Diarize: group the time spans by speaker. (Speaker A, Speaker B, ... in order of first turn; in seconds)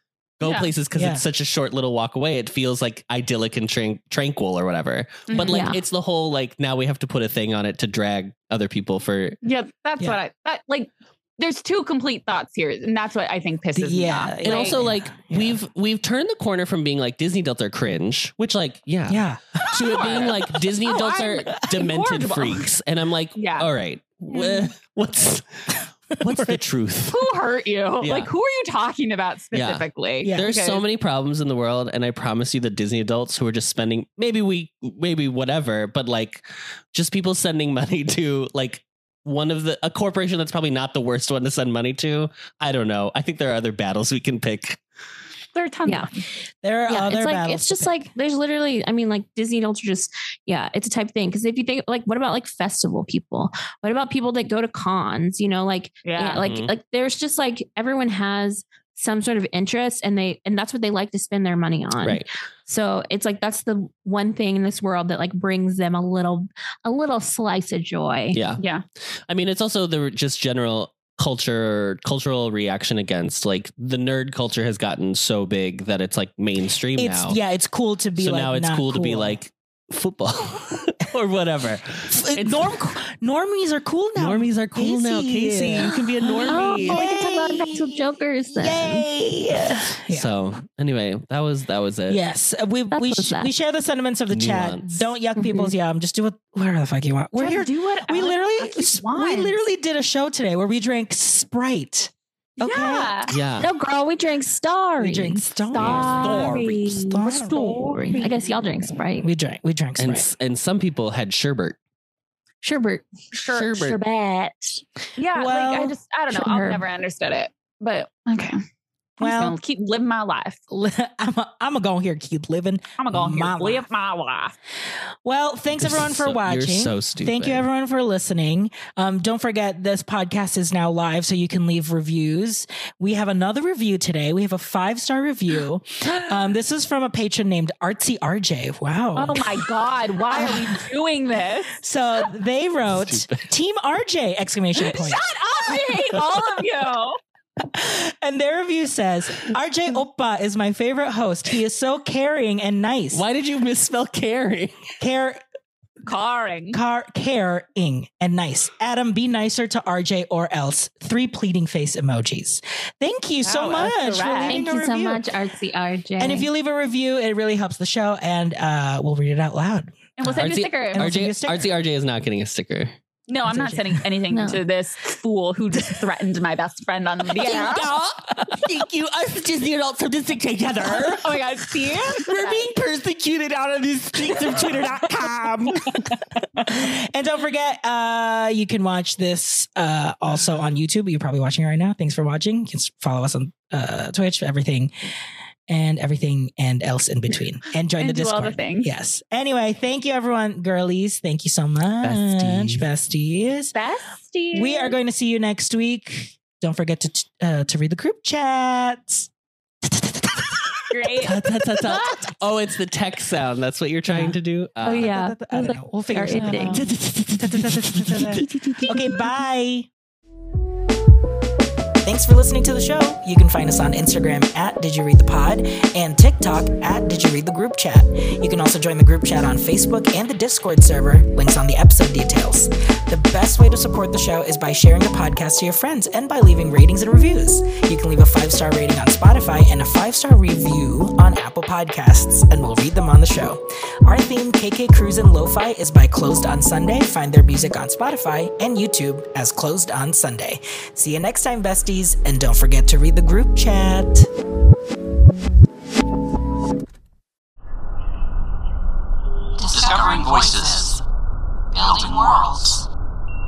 Speaker A: 0.4-9.4, 14.4-27.3, 28.0-28.3, 29.5-44.8, 56.4-56.7, 68.3-68.6, 69.3-77.4, 78.2-82.8, 84.2-87.2, 90.1-92.2, 94.3-95.0, 103.3-103.7, 105.8-106.9, 110.0-111.8, 113.5-114.0, 125.8-127.7, 142.9-143.5, 153.1-154.9, 170.3-172.9, 177.4-181.2, 184.2-185.2, 202.0-202.8, 211.2-215.1, 216.7-219.1
Speaker B: 0.4-0.7, 5.3-5.7, 9.4-14.8, 19.7-22.7, 23.4-23.7, 27.1-30.8, 45.5-46.2, 56.0-56.5, 68.6-68.8, 97.3-99.6, 102.6-103.3, 105.7-108.6, 113.3-118.5, 119.2-120.6, 123.0-124.5, 139.2-141.8, 144.8-147.2, 156.1-156.8, 163.4-164.6, 170.2-171.1, 173.3-177.9, 180.8-182.7, 198.0-198.9, 203.7-204.9, 210.9-211.4, 216.4-216.7
Speaker C: 0.9-1.2, 13.7-15.6, 19.1-20.4, 26.3-26.6, 30.2-30.5, 46.6-48.0, 77.0-79.4, 82.1-90.3, 92.1-103.2, 105.0-108.2, 109.2-110.3, 115.3-115.9, 119.2-119.6, 120.7-123.9, 125.2-139.7, 140.3-140.8, 141.8-145.2, 147.6-153.2, 155.0-155.4, 156.7-165.3, 166.2-170.3, 170.9-171.7, 173.5-174.0, 177.6-178.9, 180.8-181.2, 182.1-194.9, 195.7-203.7, 204.5-209.3, 209.8-210.8, 211.5-212.1, 214.1-219.9, 222.0-254.3
Speaker D: 5.4-5.8, 46.9-68.4, 86.4-89.0, 92.9-93.5, 95.4-95.7, 103.6-106.5, 107.9-109.3, 112.6-113.0, 116.3-116.8, 164.5-166.5, 174.3-174.6, 214.8-216.8
Speaker E: 259.6-261.0, 261.7-262.9